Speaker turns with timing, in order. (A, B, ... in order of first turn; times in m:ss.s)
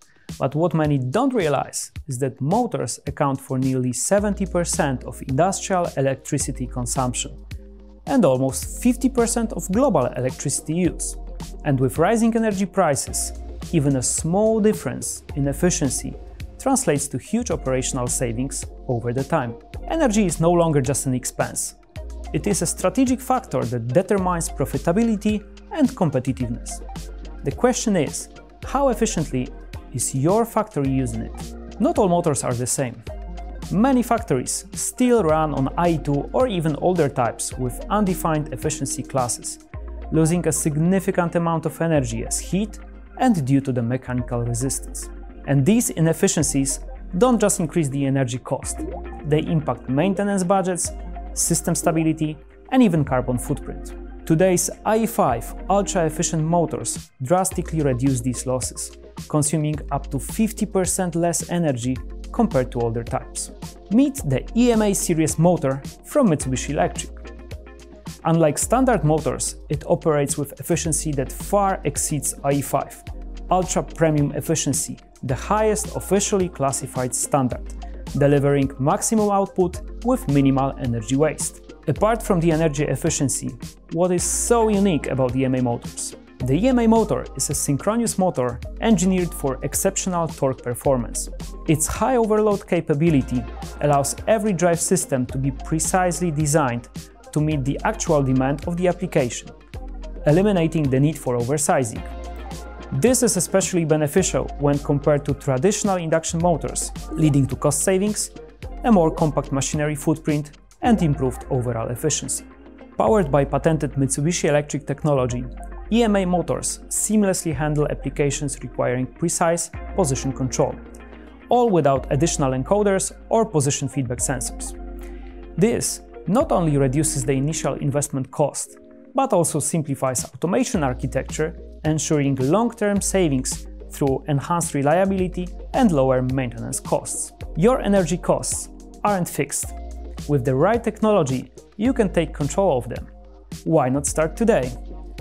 0:00.4-0:07.4 A
0:08.0-0:21.8 A
0:22.3-0:26.8 A
0:27.4-0:33.0 A
0:33.7-1:07.2 A
1:08.2-1:39.6 A
1:40.2-1:42.1 A
1:42.9-1:52.4 A
1:53.0-2:00.8 A
2:01.5-2:04.8 A
2:05.6-2:19.8 A
2:20.3-2:23.1 A
2:23.6-2:24.8 A